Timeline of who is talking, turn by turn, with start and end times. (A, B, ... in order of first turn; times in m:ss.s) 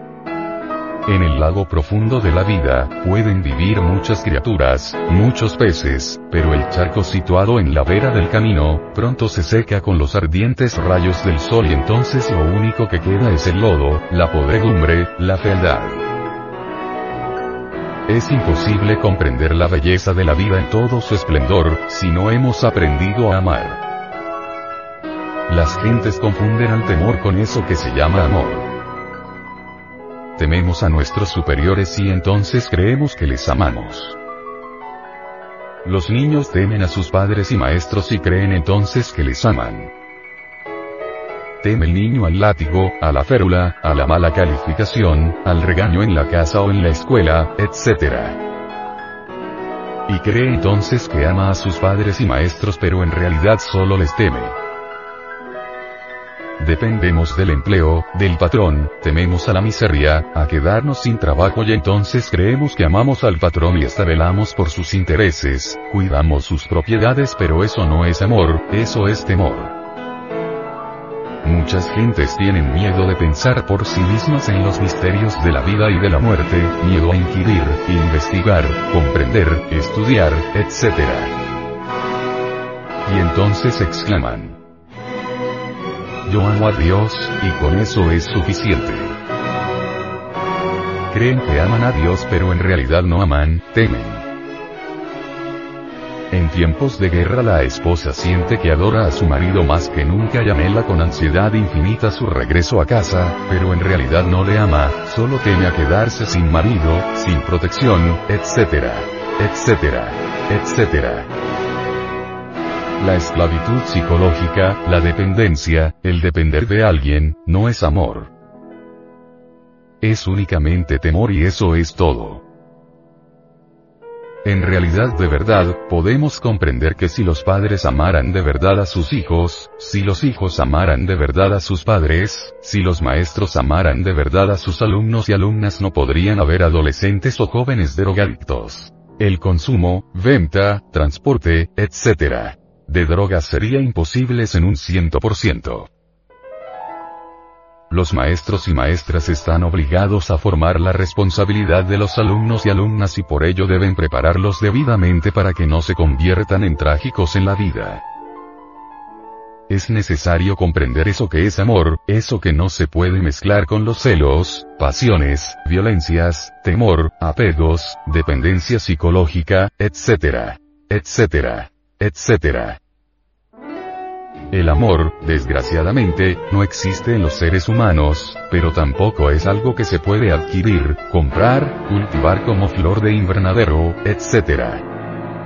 0:01.1-0:16.0 A
0:18.1-0:23.8 A
0:25.5-0:28.7 A
0:30.4-0:34.2 A
0:35.8-0:39.9 A
0:41.6-0:48.4 A
0:50.1-0:54.6 A
0:56.6-1:09.8 A
1:11.4-1:21.4 A
1:23.0-1:24.6 A
1:26.2-1:29.2 A
1:31.1-1:34.3 A
1:36.3-1:51.3 A
1:53.0-1:58.3 A
2:00.0-2:02.4 A
2:04.4-2:25.9 A
2:27.9-2:38.0 A
2:39.7-2:52.8 A
2:54.5-3:04.8 A